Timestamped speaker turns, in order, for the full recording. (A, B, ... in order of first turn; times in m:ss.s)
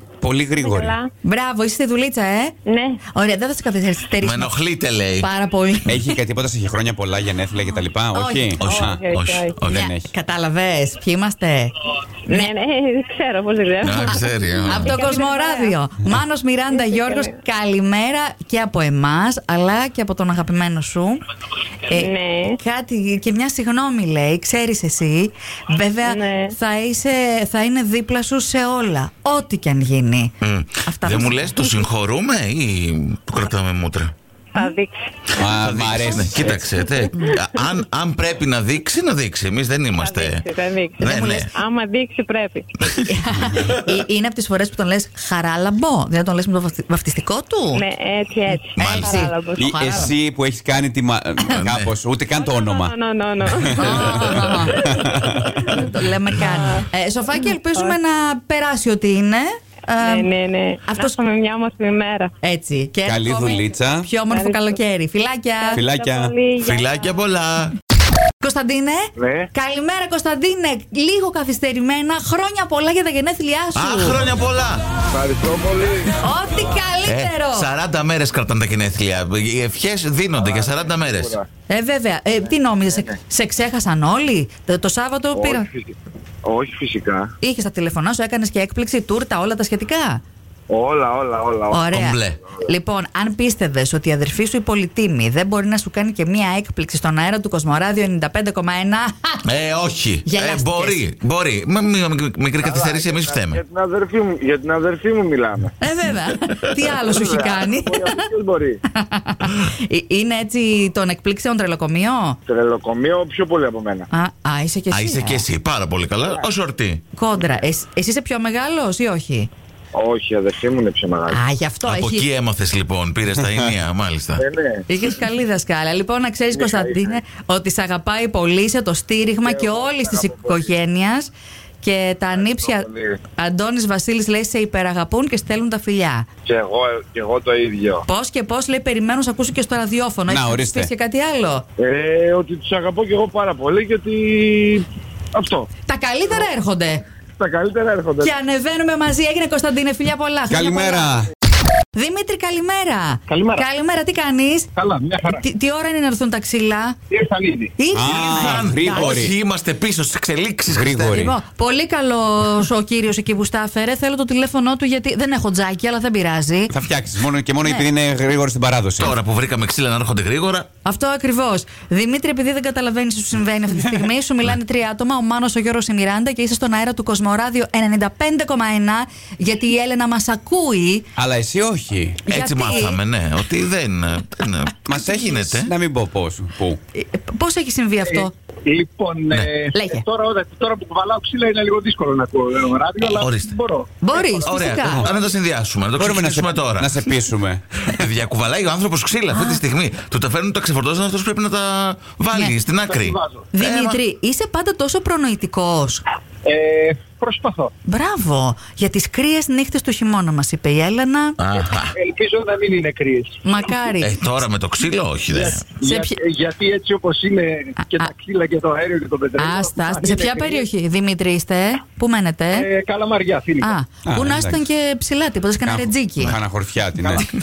0:00.2-0:01.0 A
0:00.6-0:01.1 B
0:01.2-0:02.6 C
0:02.7-0:03.0 B
0:03.1-0:04.5 C
0:04.2-0:05.9 D
0:05.2-0:06.1 C
0:05.9-0:09.0 A
0:08.1-0:08.7 C
0:08.6-0:09.8 D
0:08.6-0:09.6 B
0:09.6-0:10.1 A
0:09.7-0:11.7 C
0:12.3-0:15.8 B
0:13.8-0:15.0 D
0:14.1-0:21.2 C
0:16.7-0:17.4 B
0:21.9-0:30.3 C
0:21.9-0:22.6 B
0:26.0-0:26.5 B
0:30.4-0:34.1 D
0:30.8-0:31.9 C
0:34.5-0:35.0 B
0:35.4-0:36.6 A
0:35.4-0:40.4 D
0:40.0-0:42.7 B
0:41.0-0:41.5 D
0:41.0-0:41.5 C
0:42.8-0:43.7 D
0:43.0-0:47.8 C
0:47.7-0:49.7 B
0:48.8-0:50.1 C
0:48.8-0:49.2 D
0:49.6-0:52.9 A
0:51.5-0:51.9 D
0:52.4-0:55.0 B
0:53.5-0:55.5 A
0:53.7-1:00.3 C
0:56.4-0:56.9 B
1:00.0-1:02.3 B
1:00.9-1:01.2 C
1:02.4-1:05.8 C
1:03.0-1:04.1 A
1:04.3-1:04.8 B
1:05.6-1:07.2 B
1:05.7-1:06.3 A
1:06.6-1:07.8 D
1:08.4-1:14.2 C
1:09.2-1:09.5 E
1:13.7-1:14.8 D
1:15.1-1:16.1 E
1:16.2-1:17.7 C
1:17.0-1:21.4 D
1:20.4-1:21.5 E
1:21.7-1:25.7 C
1:22.4-1:23.2 E
1:25.3-1:27.3 E
1:27.4-1:30.2 C
1:30.7-1:31.9 E
1:31.7-1:39.4 C
1:31.9-1:32.4 D
1:39.4-1:43.6 D
1:40.2-1:41.0 C
1:42.6-1:45.7 E
1:45.8-1:48.2 C
1:46.8-1:48.8 E
1:48.9-1:52.4 C
1:52.5-1:54.1 E
1:54.1-1:55.4 C
1:54.9-1:57.0 D
1:57.1-1:59.5 C
1:59.9-2:01.4 E
2:01.3-2:02.2 C
2:01.8-2:04.4 D
2:04.4-2:04.8 E
2:04.9-2:16.3 C
2:06.5-2:07.2 E
2:09.4-2:10.7 E
2:12.4-2:13.2 E
2:16.4-2:18.0 E
2:18.1-2:21.6 C
2:20.3-2:20.9 A
2:21.8-2:25.7 E
2:25.9-2:27.0 C
2:27.4-2:28.3 E
2:28.2-2:31.2 C
2:30.5-2:31.3 A
2:31.9-2:34.7 C
2:33.3-2:33.6 F
2:34.8-2:35.4 F
2:35.3-2:37.0 C
2:37.1-2:37.8 F
2:37.8-2:38.6 C
2:37.9-2:39.3 A
2:38.0-2:41.3 D
2:40.7-2:41.4 A
2:41.1-2:46.7 C
2:46.7-2:49.2 A
2:49.0-2:50.7 D
2:50.8-3:01.1 C
3:01.2-3:02.2 A
3:02.3-3:05.7 D
3:02.3-3:03.0 C
3:04.8-3:06.8 A
3:06.9-3:08.3 C
3:08.0-3:15.2 F
3:09.7-3:10.0 C
3:13.0-3:13.6 D
3:14.0-3:15.1 C
3:14.4-3:17.0 D
3:16.0-3:18.0 A
3:17.9-3:24.0 D
3:19.3-3:19.6 C
3:22.8-3:23.5 F
3:23.5-3:26.0 C
3:26.4-3:27.7 F
3:27.8-3:31.4 C
3:31.4-3:32.0 D
3:31.9-3:33.4 F
3:33.4-3:34.2 C
3:34.0-3:35.7 D
3:35.3-3:40.6 F
3:35.8-3:36.2 C
3:37.8-3:38.1 C
3:39.4-3:42.7 C
3:42.5-3:43.7 F
3:43.6-3:46.4 C
3:44.0-3:44.6 A
3:45.6-3:47.2 A